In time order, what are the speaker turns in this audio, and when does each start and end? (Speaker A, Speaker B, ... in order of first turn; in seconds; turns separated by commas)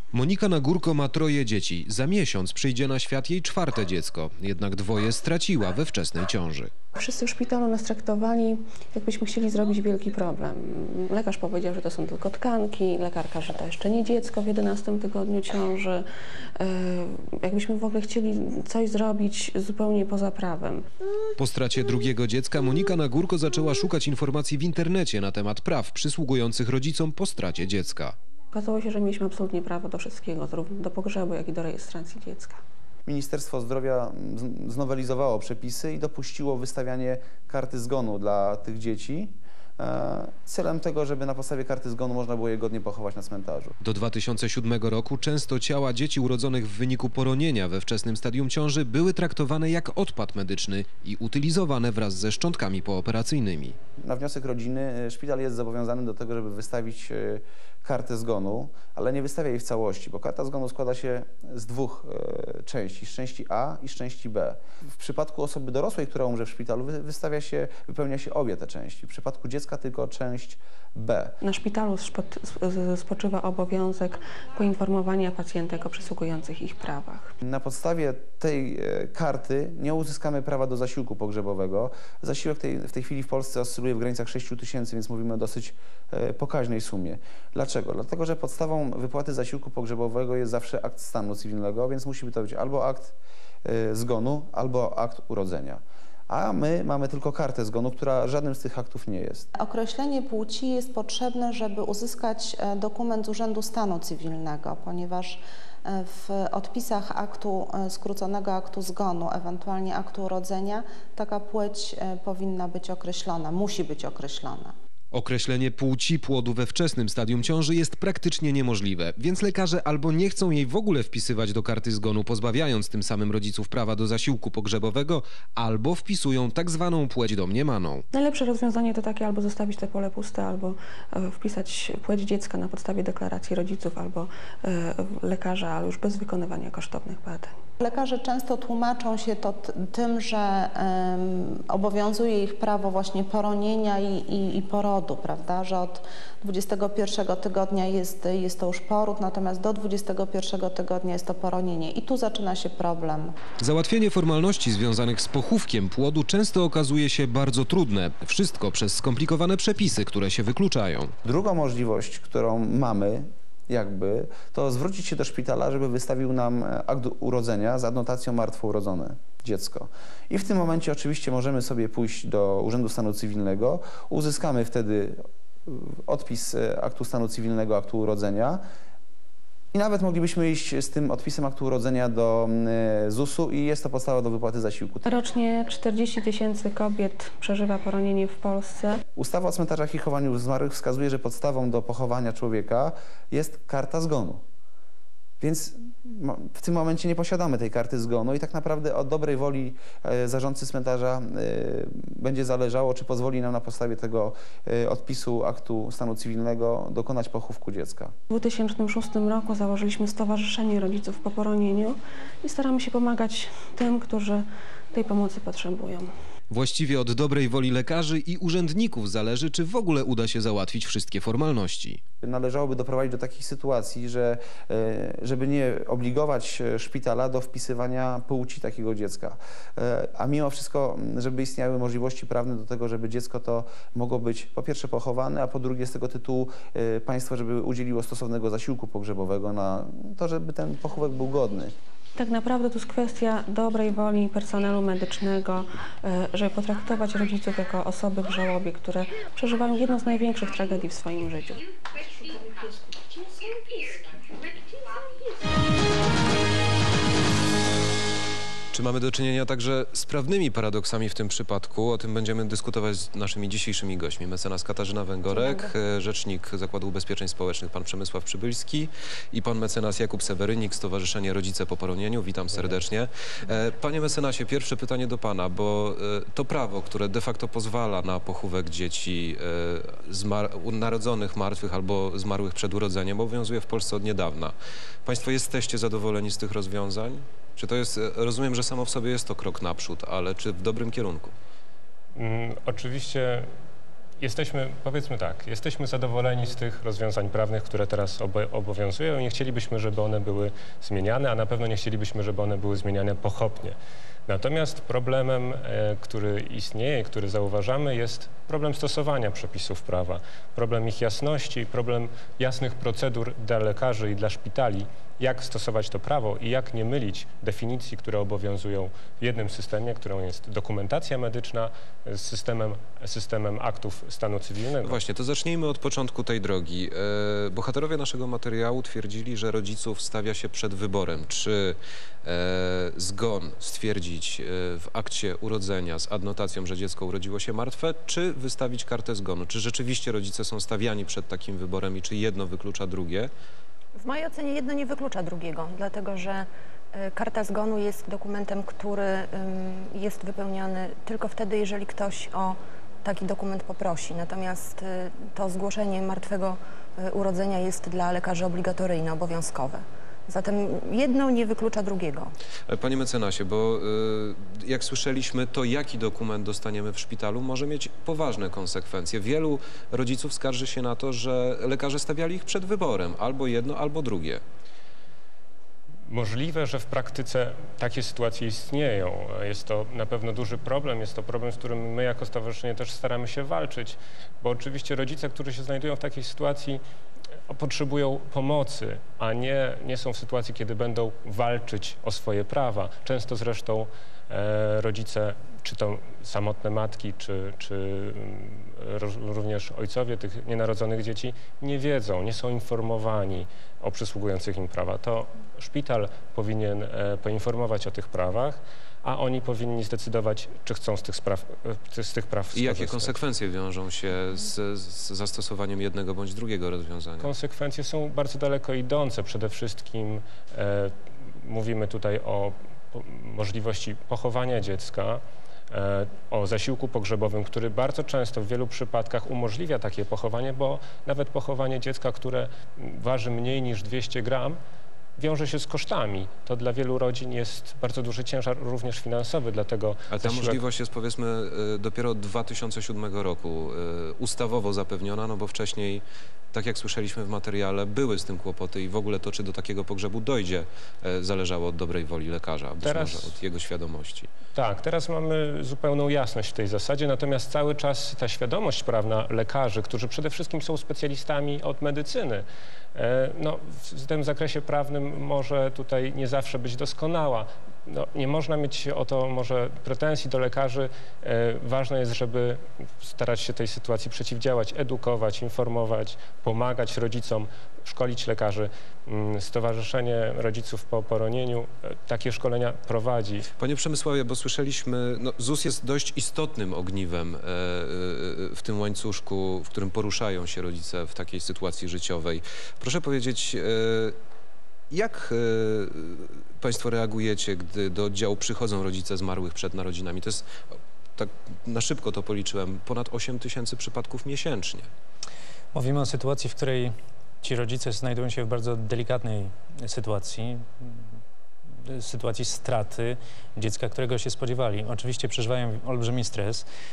Speaker A: 0.1-6.7, Speaker B: 6.9-20.9, Speaker A: 21.4-28.2, Speaker B: 28.5-32.6, Speaker C: 33.1-43.8, Speaker A: 43.8-53.8, Speaker C: 54.0-71.3, Speaker B: 71.4-77.3, Speaker C: 77.4-99.5, Speaker D: 99.6-114.7, Speaker A: 115.1-128.0, Speaker B: 128.1-137.5, Speaker D: 137.8-153.3, Speaker A: 153.6-161.1, Speaker C: 161.2-178.6, Speaker C: 179.7-185.1, Speaker B: 185.1-189.0, Speaker C: 189.2-194.4, Speaker C: 195.4-208.1, Speaker B: 208.3-216.1, Speaker A: 216.5-222.0, Speaker C: 222.2-241.8, Speaker B: 242.2-251.6, Speaker A: 258.7-284.5, Speaker E: 265.3-265.7, Speaker A: 285.1-291.3, Speaker F: 292.1-293.5, Speaker F: 294.2-303.8, Speaker F: 304.3-325.0, Speaker A: 324.8-343.3, Speaker E: 344.0-362.3, Speaker A: 362.7-374.4, Speaker F: 376.1-386.8, Speaker F: 387.5-413.2, Speaker A: 412.5-417.3, Speaker F: 417.2-434.6, Speaker F: 435.2-440.6, Speaker A: 440.1-454.3, Speaker F: 452.8-453.3, Speaker F: 454.6-483.5, Speaker A: 483.6-494.2, Speaker A: 494.9-500.5, Speaker A: 501.2-504.9, Speaker G: 505.7-510.7, Speaker G: 511.9-516.7